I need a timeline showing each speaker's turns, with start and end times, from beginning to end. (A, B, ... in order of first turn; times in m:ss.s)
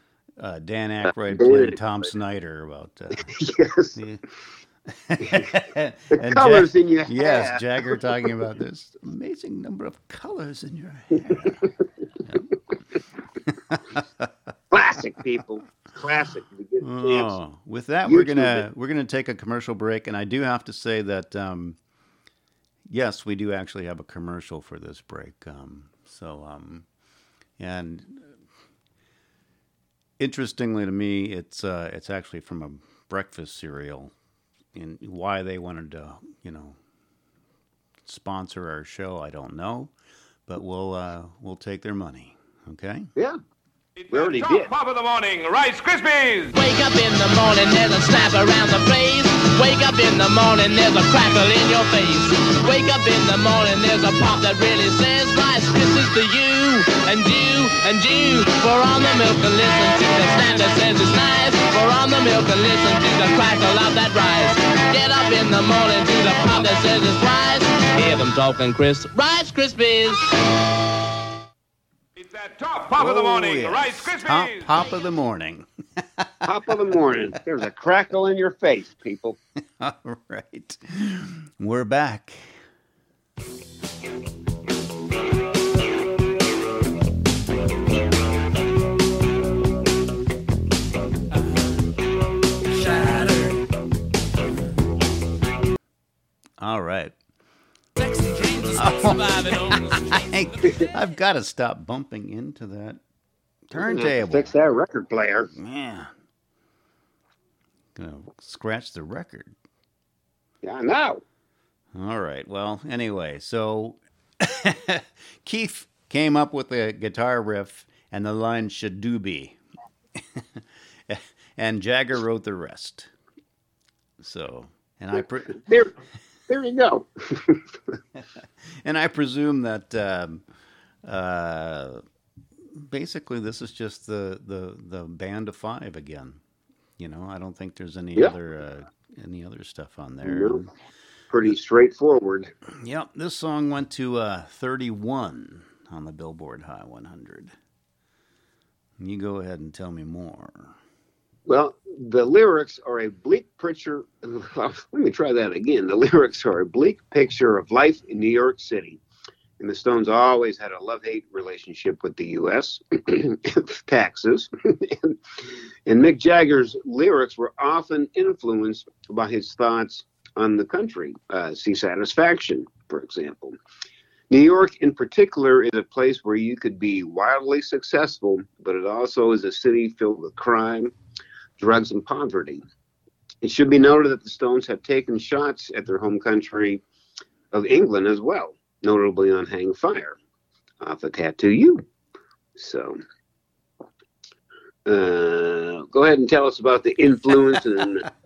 0:00.4-0:03.4 A
0:01.1-0:01.8 B
0:03.3-0:04.0 B
0:04.0-0:04.2 A
0:04.9-0:11.6 A
0:05.2-0:05.5 B
0:06.1-0:08.1 B
0:13.5-0:14.3 A
0:14.7-0:17.4 B
0:16.8-0:21.8 A
0:18.0-0:18.6 B
0:22.8-0:26.8 A
0:27.6-0:28.3 A
0:30.2-0:34.1 A
0:34.7-0:36.8 A
0:38.0-0:39.9 A
0:40.5-0:43.1 A
0:44.0-0:46.5 C
0:44.1-0:44.7 B
0:46.5-1:10.3 D
1:12.2-1:14.7 C
1:12.9-1:16.5 A
1:16.4-1:19.4 B
1:19.8-1:22.6 A
1:32.6-1:33.6 D
1:36.6-1:37.1 A
1:38.0-1:40.9 D
1:38.8-1:43.0 A
1:43.7-1:44.5 A
1:43.7-1:45.5 B
1:45.5-1:46.1 A
1:47.9-1:49.5 A
1:50.6-1:51.2 B
1:51.9-1:59.6 A
2:00.2-2:03.1 A
2:04.2-2:05.6 A
2:05.5-2:06.0 B
2:06.5-2:07.7 B
2:08.2-2:10.4 A
2:11.0-2:12.0 A
2:12.7-2:16.4 A
2:17.0-2:20.7 A
2:20.2-2:20.7 B
2:21.3-2:22.5 B
2:22.8-2:27.5 A
2:29.0-2:30.8 A
2:31.5-2:39.0 B
2:39.6-2:53.6 B
2:54.3-3:00.9 B
3:01.6-3:02.6 B
3:03.4-3:06.8 B
3:07.5-3:10.2 B
3:10.8-3:11.8 B
3:12.6-3:13.0 B
3:14.8-3:18.1 B